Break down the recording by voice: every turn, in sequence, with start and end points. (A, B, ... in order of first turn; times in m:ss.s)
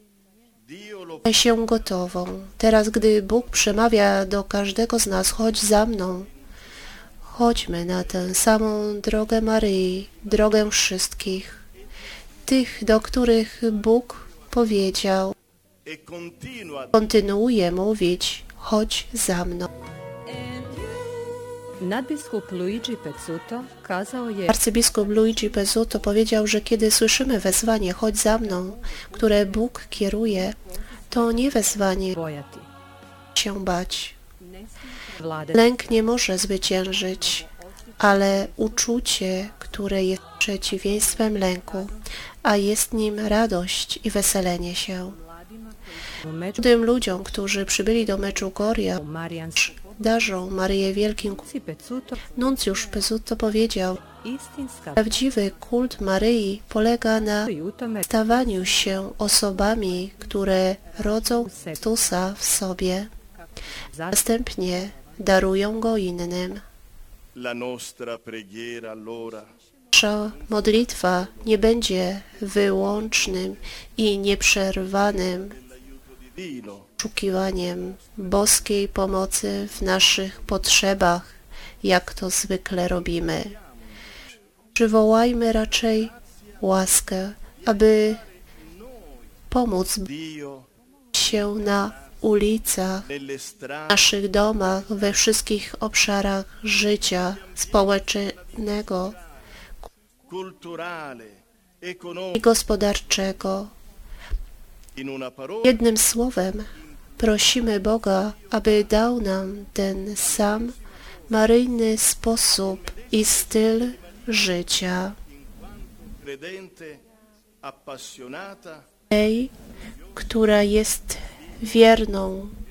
0:00.6-0:01.3 A
0:01.2-0:06.3 B
0:07.2-0:11.6 B
0:12.5-0:15.4 B
0:15.8-0:16.9 A
0:16.9-0:19.7 B
0:20.3-0:21.1 C
0:21.8-0:24.6 C
0:24.5-0:30.6 B
0:31.1-0:32.2 B
0:32.1-0:32.7 C
0:33.4-0:34.2 B
0:35.1-0:35.6 C
0:35.5-0:45.2 B
0:46.2-0:46.6 C
0:46.6-0:49.0 B
0:49.0-0:49.8 C
0:49.7-0:51.4 B
0:51.4-0:52.2 C
0:52.3-0:54.0 B
0:54.1-0:55.1 C
0:55.0-0:57.5 B
0:57.4-0:58.1 C
0:58.1-1:03.1 B
1:01.4-1:01.8 C
1:03.9-1:04.2 C
1:04.1-1:06.6 B
1:07.4-1:09.5 A
1:09.9-1:15.6 B
1:15.8-1:16.9 A
1:17.0-1:23.6 B
1:24.8-1:28.2 B
1:28.6-1:29.2 A
1:29.5-1:30.1 B
1:30.0-1:30.7 A
1:31.1-1:33.1 B
1:33.1-1:34.1 A
1:33.9-1:39.2 B
1:37.6-1:38.5 A
1:40.3-1:42.4 A
1:42.4-1:43.7 B
1:45.0-1:45.7 A
1:45.6-1:50.8 B
1:51.3-1:55.2 B
1:52.8-1:53.2 A
1:53.8-1:54.2 A
1:55.5-1:57.0 A
1:57.6-1:58.9 A
1:59.1-1:59.5 B
2:00.2-2:02.6 B